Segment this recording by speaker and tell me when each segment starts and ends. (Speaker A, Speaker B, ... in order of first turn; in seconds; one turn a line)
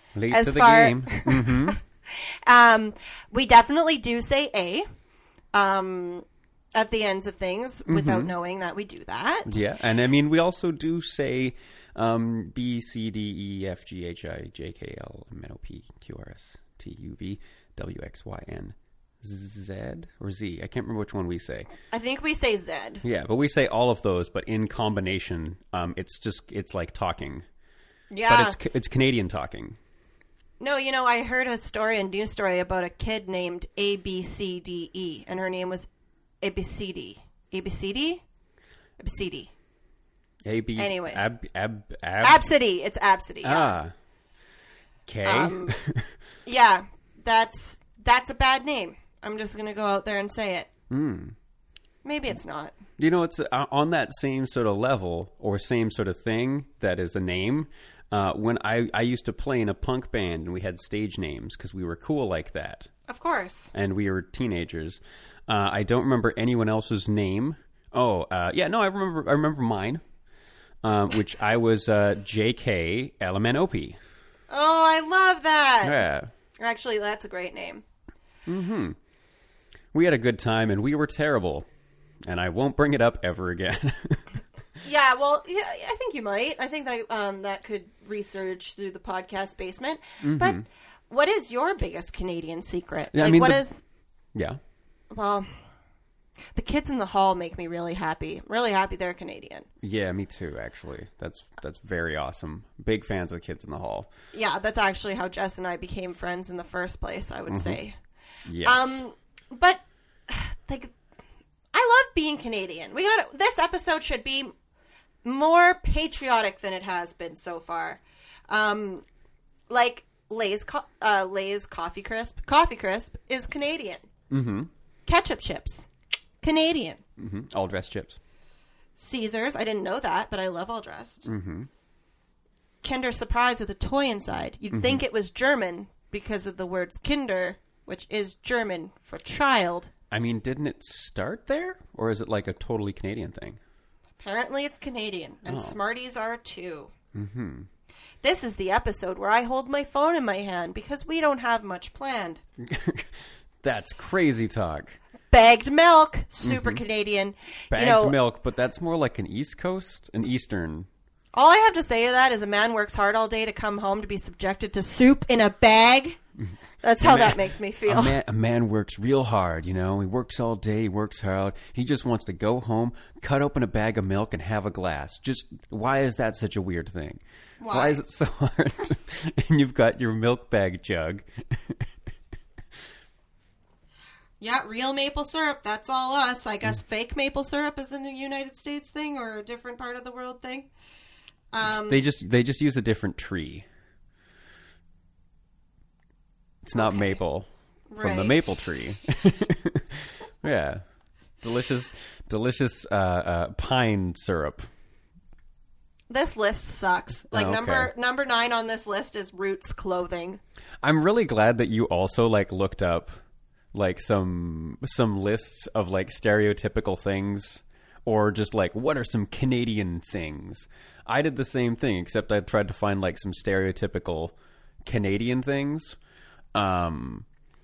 Speaker A: 0.1-1.8
Speaker B: 0.3-4.9
Speaker B: 5.5-9.6
Speaker A: 7.9-8.3
Speaker A: 9.4-21.7
Speaker B: 21.9-23.0
Speaker A: 23.0-27.4
Speaker B: 28.1-28.6
Speaker A: 28.2-29.8
Speaker B: 30.6-35.9
Speaker B: 36.4-38.2
Speaker B: 39.0-39.5
Speaker A: 40.4-42.4
Speaker B: 40.8-41.2
Speaker B: 42.2-43.7
Speaker A: 43.4-43.9
Speaker A: 45.0-46.1
Speaker B: 45.2-45.7
Speaker B: 46.4-50.7
Speaker A: 50.9-51.4
Speaker B: 52.0-52.7
Speaker A: 53.0-62.9
Speaker B: 63.1-63.7
Speaker A: 63.7-70.0
Speaker A: 70.8-74.0
Speaker B: 74.5-76.0
Speaker A: 75.8-76.3
Speaker B: 76.6-77.8
Speaker A: 78.5-79.0
Speaker A: 79.9-81.7
Speaker A: 82.2-84.3
Speaker B: 84.8-93.8
Speaker A: 90.2-90.6
Speaker A: 93.1-93.6
Speaker B: 95.1-95.5
Speaker B: 96.5-99.7
Speaker A: 99.8-104.1
Speaker B: 104.3-108.0
Speaker A: 107.5-107.8
Speaker A: 108.4-109.0
Speaker B: 108.6-110.9
Speaker B: 111.7-114.5
Speaker B: 115.2-119.0
Speaker B: 119.7-124.1
Speaker A: 124.3-124.7
Speaker B: 125.1-125.9
Speaker B: 126.4-127.0
Speaker A: 127.2-128.2
Speaker B: 129.0-131.2
Speaker A: 131.2-131.7
Speaker B: 132.8-139.9
Speaker A: 134.7-135.0
Speaker A: 140.1-143.6
Speaker B: 144.2-146.9
Speaker A: 145.4-145.8
Speaker A: 147.1-147.7
Speaker B: 148.2-152.4
Speaker A: 152.6-155.0
Speaker B: 155.3-158.2
Speaker A: 156.4-156.8
Speaker A: 157.7-160.9
Speaker B: 161.3-166.2
Speaker B: 166.8-168.2
Speaker A: 167.0-181.8
Speaker B: 177.6-178.0
Speaker B: 184.4-190.7
Speaker B: 191.5-192.0
Speaker A: 191.6-193.7
Speaker A: 196.6-197.5
Speaker B: 196.7-197.2
Speaker B: 197.9-198.5
Speaker A: 198.0-200.8
Speaker A: 201.4-204.7
Speaker B: 206.1-210.4
Speaker A: 207.3-207.9
Speaker A: 210.8-213.2
Speaker A: 213.7-226.0
Speaker A: 226.5-227.2